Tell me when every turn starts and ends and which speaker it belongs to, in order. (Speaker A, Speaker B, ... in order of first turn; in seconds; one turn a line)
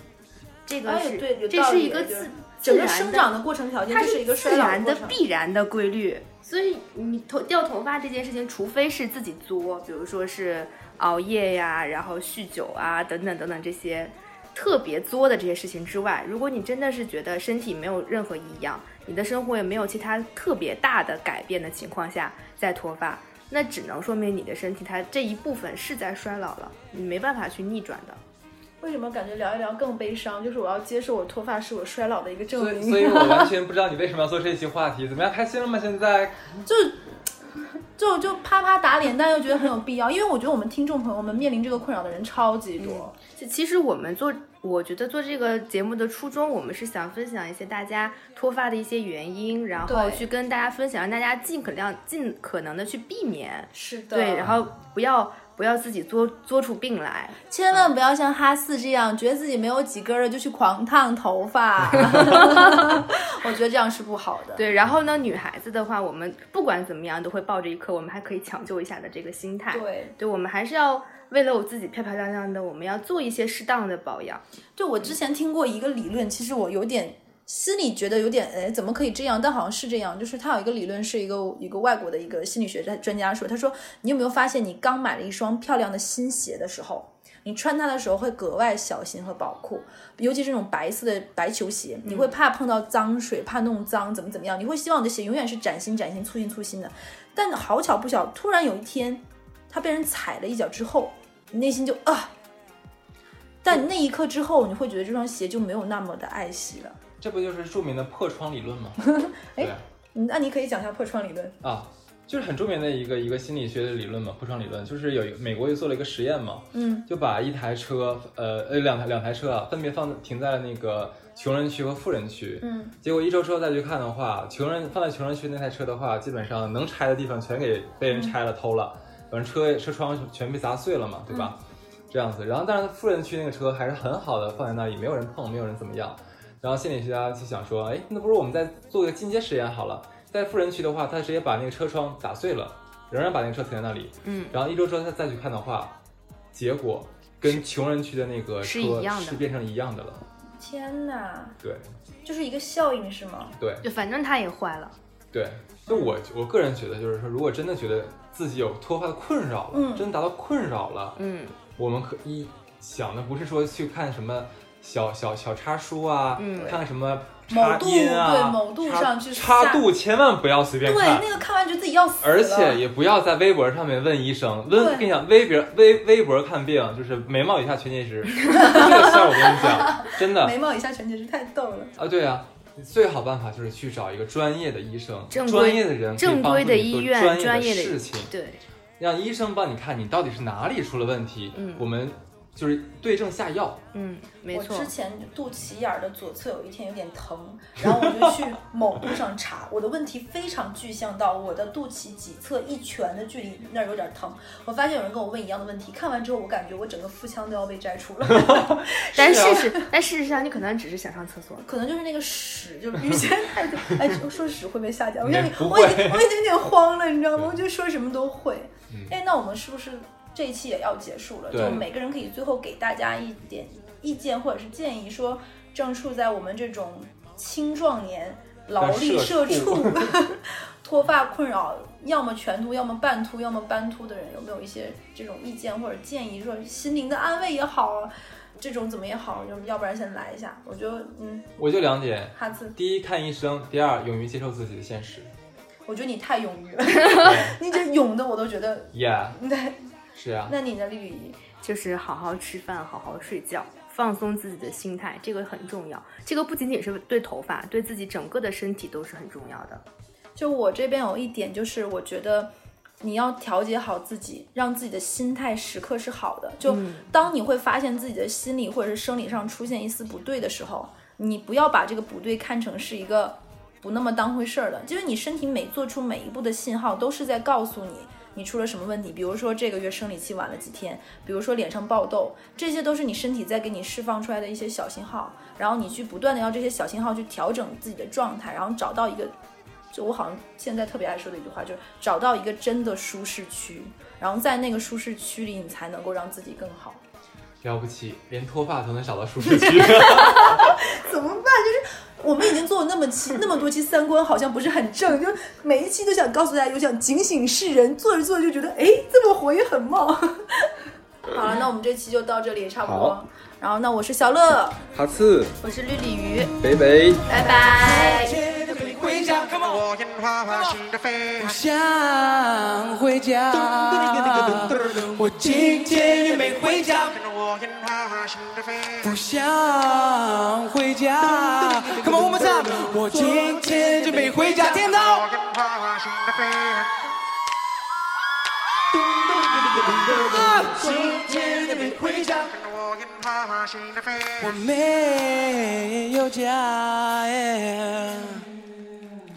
Speaker A: 0.7-3.3
Speaker B: 0.8-5.2
Speaker A: 3.9-28.2
Speaker B: 28.8-33.5
Speaker C: 32.5-36.4
Speaker B: 36.7-37.0
Speaker B: 38.0-43.1
Speaker A: 42.8-57.4
Speaker B: 49.9-50.3
Speaker B: 53.7-54.5
Speaker B: 57.5-64.7
Speaker A: 62.5-62.8
Speaker A: 64.6-74.4
Speaker B: 69.7-70.2
Speaker B: 74.8-102.3
Speaker A: 92.0-92.3
Speaker B: 103.6-107.0
Speaker C: 107.2-109.8
Speaker B: 109.0-111.5
Speaker C: 111.6-131.6
Speaker B: 116.7-117.1
Speaker B: 122.6-123.0
Speaker B: 131.3-131.6
Speaker C: 132.1-146.0
Speaker A: 144.2-144.6
Speaker C: 146.5-150.2
Speaker A: 148.6-149.4
Speaker B: 150.6-151.6
Speaker B: 152.2-153.6
Speaker C: 153.6-153.8
Speaker A: 153.8-154.9
Speaker C: 155.3-161.2
Speaker B: 159.7-160.1
Speaker A: 161.2-161.6
Speaker C: 161.8-171.3
Speaker A: 166.4-166.8
Speaker B: 167.5-169.9
Speaker B: 170.8-172.8
Speaker C: 172.2-180.6
Speaker B: 174.7-175.1
Speaker B: 178.5-181.9
Speaker A: 178.5-178.9
Speaker C: 182.0-188.3
Speaker A: 185.3-188.6
Speaker C: 189.0-193.8
Speaker A: 191.6-191.9
Speaker A: 193.9-194.9
Speaker B: 194.5-209.9
Speaker C: 198.0-198.3
Speaker C: 208.3-209.6
Speaker A: 209.1-211.7
Speaker B: 211.6-241.5
Speaker C: 215.2-216.3
Speaker C: 221.5-221.9
Speaker C: 228.8-230.2
Speaker C: 241.6-245.3
Speaker B: 242.3-242.8
Speaker B: 245.9-249.8
Speaker C: 247.2-247.6
Speaker C: 248.9-249.4
Speaker C: 250.2-250.6
Speaker B: 250.5-251.4
Speaker A: 251.6-259.8
Speaker B: 260.4-289.3
Speaker A: 266.6-267.1
Speaker B: 289.9-297.0
Speaker C: 297.6-300.8
Speaker B: 299.5-314.9
Speaker C: 312.9-313.2
Speaker C: 314.9-315.6
Speaker A: 315.6-316.6
Speaker C: 316.6-317.3
Speaker A: 317.3-318.4
Speaker D: 317.7-319.9
Speaker E: 319.7-321.4
Speaker D: 320.5-320.8
Speaker D: 321.4-327.2
Speaker E: 327.2-329.0
Speaker D: 329.0-335.3
Speaker E: 335.2-336.9
Speaker D: 338.9-342.5
Speaker E: 342.5-344.4
Speaker D: 344.4-348.5